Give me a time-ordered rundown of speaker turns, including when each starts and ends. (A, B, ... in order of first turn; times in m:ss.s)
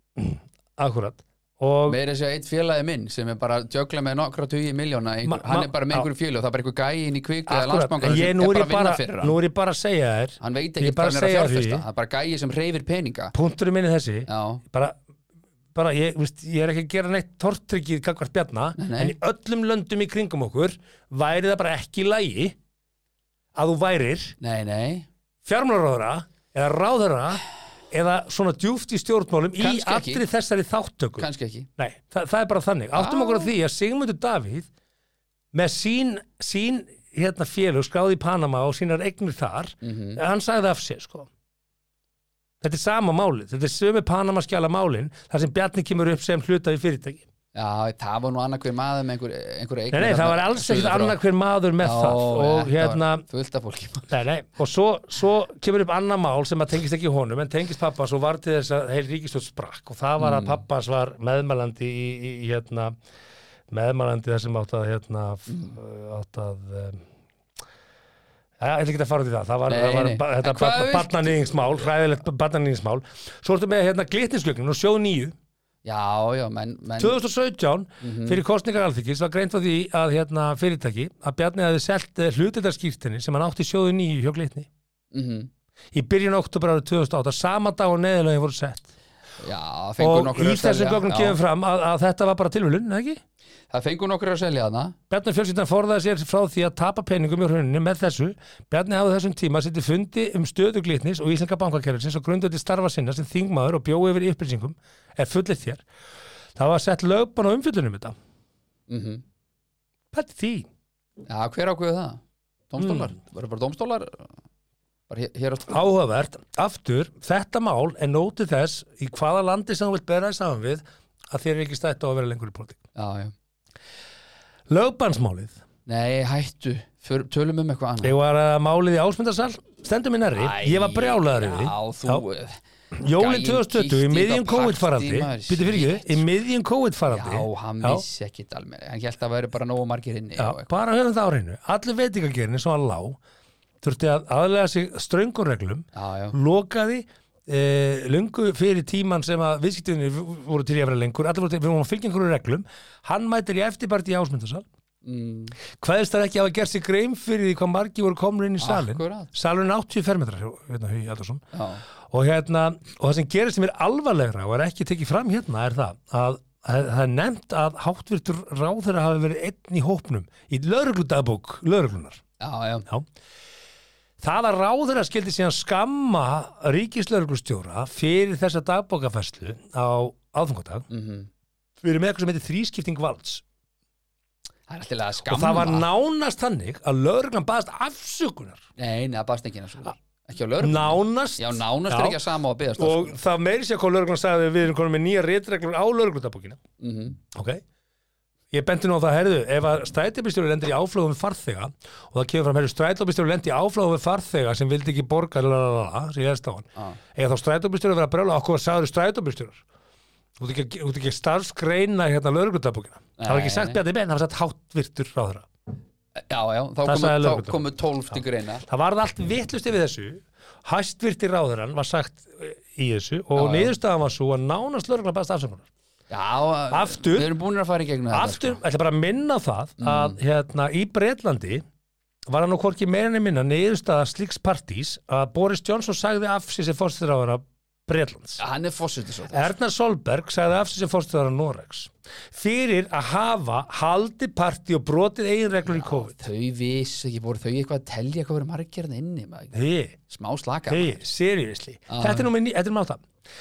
0:00.2-0:02.0 A
0:01.9-0:09.4 B
0:05.2-0:06.1 A
0:07.5-0:11.8 A
0:10.4-0:13.4 B
0:13.3-0:15.0 A
0:14.3-0:14.6 B
0:15.7-0:22.6 A
0:18.8-0:19.2 B
0:23.6-0:24.4 A
0:24.4-0:25.1 B
0:25.4-0:34.7 A
0:29.6-0:30.2 B
0:31.2-0:31.7 B
0:33.0-0:33.5 B
0:35.5-0:41.3 A
0:39.8-0:40.2 B
0:42.6-0:47.2 A
0:47.5-0:51.2 B
0:49.9-0:53.2 A
0:51.8-0:54.1 B
0:54.1-1:03.0 A
1:00.2-1:00.6 B
1:03.7-1:07.0 A
1:05.5-1:05.8 B
1:08.6-1:15.4 A
1:09.7-1:11.6 B
1:15.8-1:17.2 B
1:17.0-1:24.7 A
1:18.0-1:18.4 B
1:25.1-1:25.5 B
1:25.9-1:28.9 A
1:29.4-1:31.4 B
1:30.0-1:33.2 A
1:33.7-1:35.0 B
1:35.1-1:45.8 A
1:46.6-1:48.2 A
1:48.9-1:49.2 B
1:50.1-1:50.7 A
1:51.3-1:54.3 B
1:52.8-1:53.1 A
1:55.1-1:55.8 B
1:55.7-2:02.8 A
2:03.0-2:03.3 B
2:04.7-2:05.6 A
2:05.9-2:08.2 B
2:08.0-2:12.2 A
2:10.3-2:16.2 B
2:12.9-2:18.0 A
2:17.1-2:20.7 B
2:20.4-2:23.2 A
2:23.8-2:34.7 A
2:26.0-2:26.4 B
2:35.0-2:35.6 B
2:35.8-2:41.4 A
2:38.6-2:39.3 B
2:41.5-2:41.8 B
2:42.1-2:52.2 A
2:52.4-2:52.9 B
2:54.2-3:00.9 A
3:00.9-3:01.3 B
3:01.8-3:03.4 A
3:04.7-3:05.9 B
3:05.2-3:08.6 A
3:08.8-3:13.2 B
3:10.6-3:12.2 A
3:12.8-3:16.6 A
3:16.8-3:17.2 B
3:17.3-3:17.6 A
3:18.5-3:29.6 A
3:30.4-3:35.5 A
3:33.2-3:33.8 B
3:36.3-3:38.6 B
3:36.8-3:45.7 A
3:43.4-3:43.8 B
3:46.1-3:48.6 B
3:46.7-3:47.3 A
3:48.1-3:51.6 A
3:49.8-3:50.2 B
3:52.3-3:58.4 A
3:58.4-3:59.5 B
3:59.3-4:06.2 A
4:05.7-4:09.6 B
4:09.5-4:10.0 A
4:10.1-4:11.0 B
4:10.7-4:13.0 A
4:11.9-4:12.3 B